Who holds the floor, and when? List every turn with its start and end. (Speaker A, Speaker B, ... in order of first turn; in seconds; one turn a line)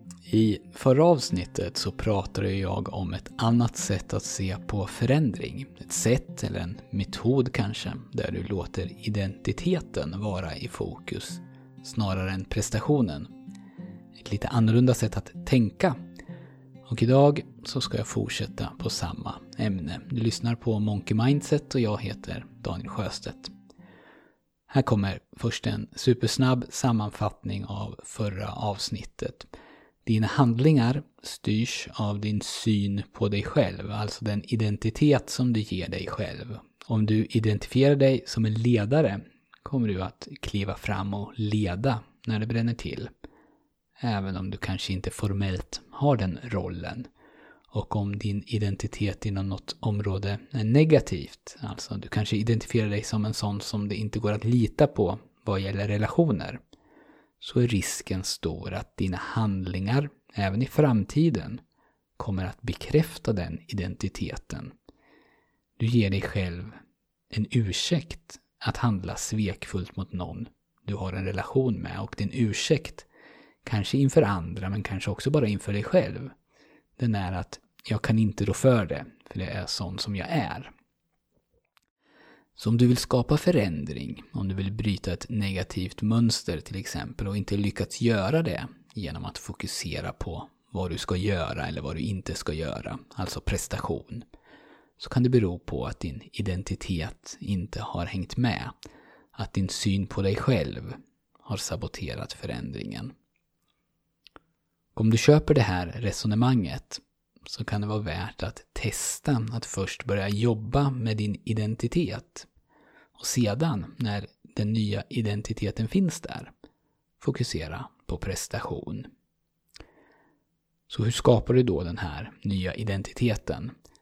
Speaker A: 0.3-13.3
Speaker A: 14.2-16.0
Speaker A: 16.9-23.5
Speaker A: 24.7-29.5
Speaker A: 30.1-43.1
Speaker A: 44.0-47.1
Speaker A: 47.7-56.6
Speaker A: 57.4-61.6
Speaker A: 62.2-64.7
Speaker A: 65.8-66.7
Speaker A: 67.3-73.1
Speaker A: 73.6-76.3
Speaker A: 77.0-80.7
Speaker A: 82.6-94.2
Speaker A: 95.0-98.7
Speaker A: 99.3-103.1
Speaker A: 105.0-112.5
Speaker A: 113.2-116.5
Speaker A: 117.2-119.1
Speaker A: 120.9-123.7